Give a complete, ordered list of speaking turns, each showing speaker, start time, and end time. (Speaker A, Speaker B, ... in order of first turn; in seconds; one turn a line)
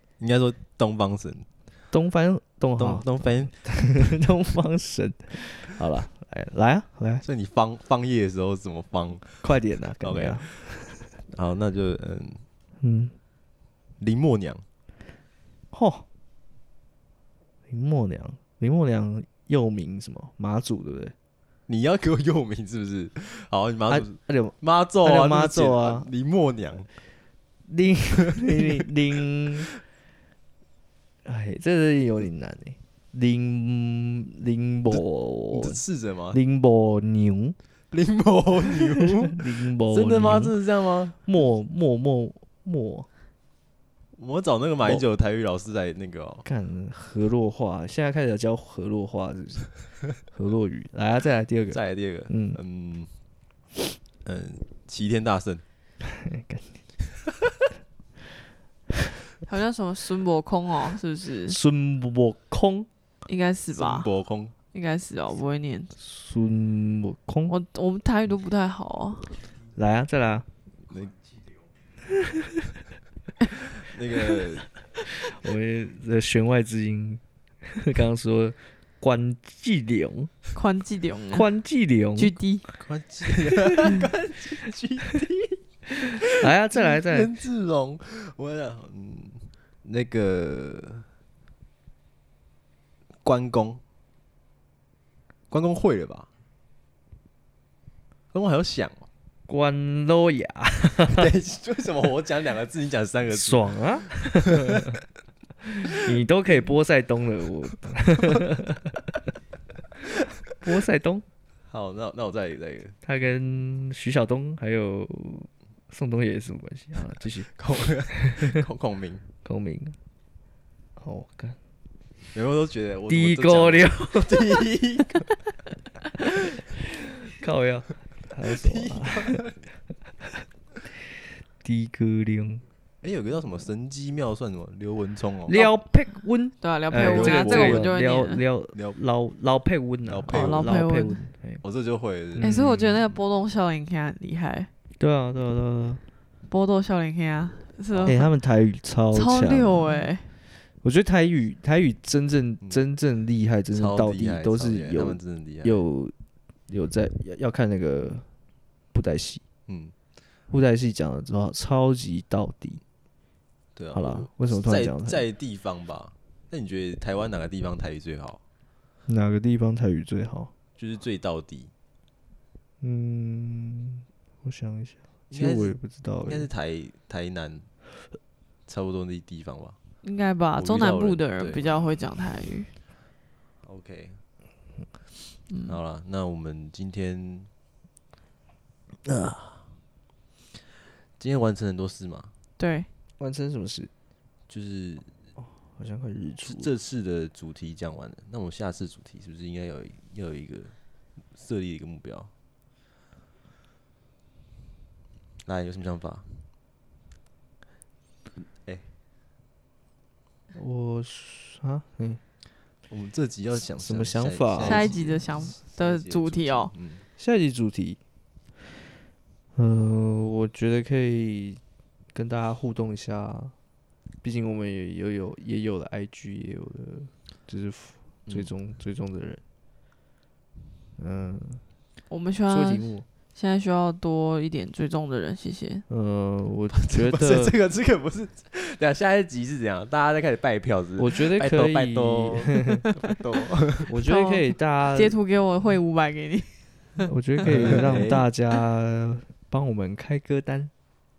Speaker A: 0.2-1.5
Speaker B: 1.9-7.2
Speaker A: 2.8-3.5
Speaker A: 7.2-10.7
Speaker B: 9.4-11.1
Speaker A: 11.3-12.4
Speaker B: 12.8-13.1
Speaker A: 14.0-14.6
Speaker B: 15.7-16.1
Speaker B: 17.7-21.1
Speaker A: 21.7-26.9
Speaker B: 23.9-26.1
Speaker B: 27.7-29.7
Speaker A: 28.3-28.9
Speaker B: 31.2-37.6
Speaker A: 34.9-36.4
Speaker A: 37.9-41.2
Speaker B: 39.3-40.6
Speaker B: 41.2-43.1
Speaker A: 44.2-46.5
Speaker B: 46.5-52.6
Speaker A: 51.7-53.1
Speaker A: 54.2-55.6
Speaker B: 56.0-56.8
Speaker C: 59.5-61.6
Speaker B: 61.5-62.9
Speaker C: 63.3-64.1
Speaker A: 63.7-64.5
Speaker C: 64.7-65.9
Speaker B: 66.0-67.5
Speaker C: 67.5-69.4
Speaker B: 69.7-70.5
Speaker A: 70.9-71.2
Speaker A: 73.8-74.7
Speaker B: 75.3-80.3
Speaker C: 80.5-81.5
Speaker B: 81.3-82.3
Speaker C: 82.2-82.6
Speaker A: 82.8-85.6
Speaker B: 83.5-83.9
Speaker A: 86.2-91.1
Speaker B: 86.3-87.3
Speaker A: 93.2-93.8
Speaker A: 95.5-96.3
Speaker A: 98.3-99.1
Speaker B: 99.5-101.3
Speaker A: 101.0-104.8
Speaker B: 103.3-105.0
Speaker B: 105.8-109.0
Speaker B: 110.6-111.2
Speaker A: 111.7-113.0
Speaker B: 113.0-117.5
Speaker A: 117.6-119.2
Speaker B: 118.1-118.6
Speaker B: 119.4-120.0
Speaker B: 121.0-121.6
Speaker A: 122.3-125.3
Speaker B: 123.1-124.7
Speaker B: 127.3-129.5
Speaker A: 128.5-129.6
Speaker B: 131.6-132.6
Speaker A: 133.0-135.6
Speaker B: 135.5-141.6
Speaker C: 136.6-138.4
Speaker A: 137.0-137.9
Speaker A: 140.1-140.8
Speaker C: 140.3-141.2
Speaker A: 141.6-142.5
Speaker B: 142.3-143.0
Speaker C: 142.4-144.7
Speaker B: 145.0-146.0
Speaker C: 146.5-148.3
Speaker A: 147.9-148.2
Speaker B: 148.1-150.1
Speaker C: 149.1-150.3
Speaker B: 150.8-156.1
Speaker A: 153.7-155.8
Speaker B: 156.7-158.3
Speaker B: 158.9-159.4
Speaker A: 159.7-159.9
Speaker B: 160.5-162.8
Speaker A: 163.8-168.4
Speaker B: 163.9-165.2
Speaker B: 169.1-170.5
Speaker A: 170.8-171.7
Speaker B: 172.8-176.5
Speaker A: 175.3-177.7
Speaker A: 178.7-179.8
Speaker C: 180.0-182.7
Speaker A: 180.6-181.7
Speaker A: 183.6-184.2
Speaker C: 185.5-185.8
Speaker A: 185.7-187.5
Speaker A: 189.1-189.6
Speaker A: 191.2-192.3
Speaker C: 192.6-192.9
Speaker B: 193.2-193.9
Speaker A: 194.5-195.1
Speaker B: 195.6-196.7
Speaker A: 196.4-200.8
Speaker A: 201.3-202.3
Speaker A: 205.4-206.4
Speaker A: 208.4-208.9
Speaker B: 210.6-212.2
Speaker A: 212.9-217.0
Speaker B: 213.8-215.0
Speaker C: 214.6-216.7
Speaker B: 217.2-218.0
Speaker B: 219.6-221.6
Speaker B: 222.1-223.5
Speaker B: 224.2-229.4
Speaker B: 231.0-231.6
Speaker C: 232.1-235.8
Speaker B: 232.5-233.1
Speaker B: 235.9-237.6
Speaker A: 236.7-244.0
Speaker B: 241.0-242.8
Speaker B: 243.9-245.2
Speaker C: 244.1-247.1
Speaker B: 247.1-250.7
Speaker A: 247.4-248.2